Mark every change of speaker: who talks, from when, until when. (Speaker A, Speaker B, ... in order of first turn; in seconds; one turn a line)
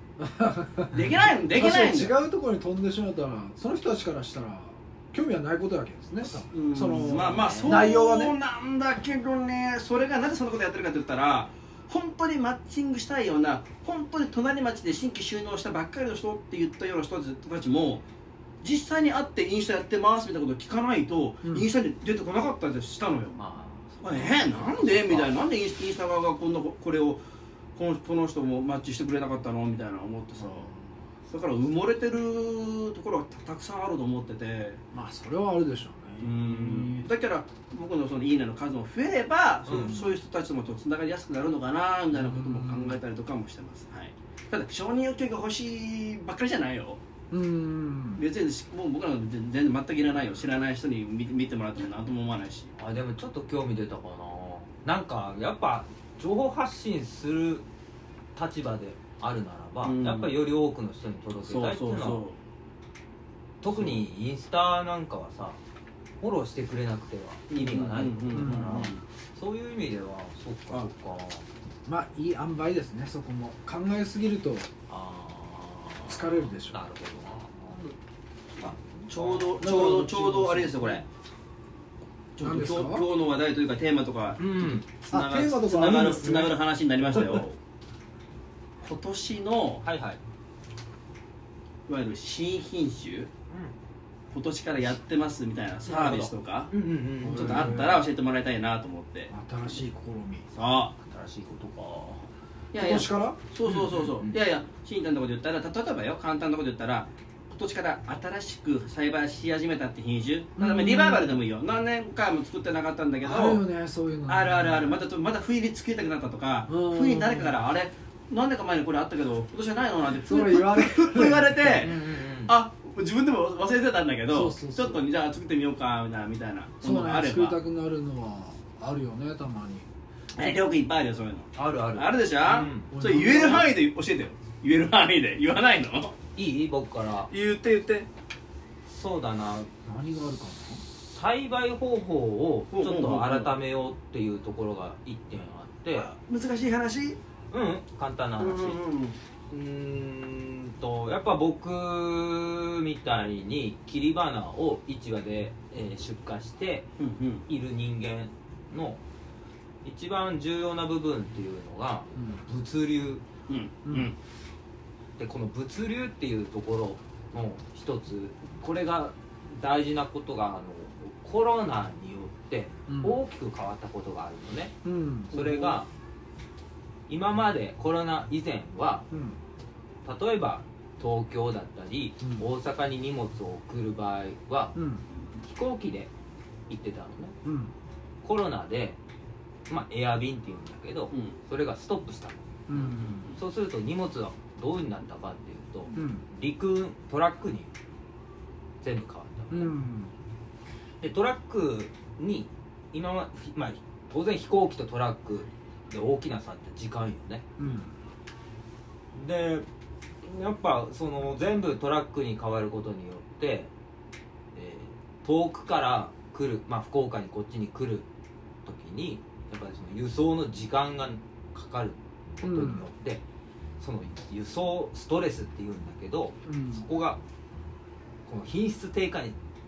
Speaker A: 0.2-8.3
Speaker B: 0.9-2.2
Speaker B: 6.5-18.1
Speaker C: 6.9-7.8
Speaker B: 18.6-23.4
Speaker C: 23.4-25.3
Speaker B: 24.0-27.2
Speaker B: 27.8-30.7
Speaker B: 31.3-34.8
Speaker A: 34.9-37.1
Speaker B: 36.2-47.0
Speaker C: 39.7-40.0
Speaker A: 39.8-40.1
Speaker A: 42.1-43.0
Speaker A: 47.3-48.2
Speaker B: 48.1-52.7
Speaker C: 52.8-57.6
Speaker C: 58.4-62.2
Speaker B: 59.8-60.3
Speaker B: 61.4-62.4
Speaker C: 63.6-65.6
Speaker B: 63.7-64.0
Speaker C: 66.2-71.5
Speaker B: 67.5-69.0
Speaker A: 68.3-68.9
Speaker A: 71.9-74.7
Speaker C: 74.9-77.8
Speaker A: 76.1-76.8
Speaker C: 78.6-79.8
Speaker B: 78.6-81.0
Speaker A: 79.6-80.9
Speaker B: 82.4-87.5
Speaker A: 82.4-83.1
Speaker C: 84.4-84.9
Speaker A: 84.9-86.6
Speaker A: 87.1-87.4
Speaker B: 88.8-89.8
Speaker C: 89.8-90.2
Speaker B: 91.9-93.3
Speaker B: 94.3-96.7
Speaker C: 95.9-97.8
Speaker B: 97.2-99.3
Speaker A: 97.2-98.0
Speaker A: 99.3-100.5
Speaker B: 100.5-100.9
Speaker C: 101.0-102.3
Speaker B: 102.7-113.6
Speaker A: 102.8-103.4
Speaker C: 103.7-104.4
Speaker A: 110.6-111.4
Speaker A: 113.2-115.0
Speaker B: 114.3-127.6
Speaker A: 116.7-117.5
Speaker A: 120.2-121.6
Speaker C: 121.8-122.5
Speaker A: 124.3-125.0
Speaker A: 126.8-129.9
Speaker B: 130.4-136.2
Speaker C: 131.6-132.9
Speaker A: 132.9-133.7
Speaker C: 136.4-137.3
Speaker B: 137.3-138.1
Speaker C: 138.9-139.7
Speaker A: 139.8-140.8
Speaker C: 140.9-146.1
Speaker B: 142.7-143.5
Speaker B: 145.9-147.2
Speaker C: 147.5-148.8
Speaker B: 148.4-149.2
Speaker C: 149.5-156.9
Speaker B: 157.0-157.4
Speaker C: 157.5-159.0
Speaker C: 159.8-163.2
Speaker A: 162.2-162.4
Speaker B: 163.5-164.1
Speaker A: 163.9-164.1
Speaker C: 165.2-174.7
Speaker A: 172.9-173.2
Speaker A: 174.8-175.4
Speaker C: 175.3-175.9
Speaker B: 175.3-175.8
Speaker C: 177.1-179.1
Speaker A: 179.1-179.4
Speaker C: 180.1-184.8
Speaker A: 182.2-182.5
Speaker A: 184.8-185.1
Speaker C: 185.4-186.1
Speaker C: 186.7-187.3
Speaker A: 187.4-187.7
Speaker C: 188.2-189.0
Speaker C: 189.7-197.7
Speaker B: 191.1-191.4
Speaker A: 192.7-193.2
Speaker B: 193.0-193.4
Speaker A: 195.9-196.2
Speaker C: 198.8-199.7
Speaker A: 199.5-200.1
Speaker C: 201.0-207.7
Speaker A: 207.6-207.9
Speaker C: 209.1-209.7
Speaker C: 210.2-213.7
Speaker C: 214.5-218.1
Speaker C: 218.6-223.2
Speaker A: 222.4-222.8
Speaker C: 223.8-227.2
Speaker A: 226.5-226.8
Speaker C: 228.2-229.3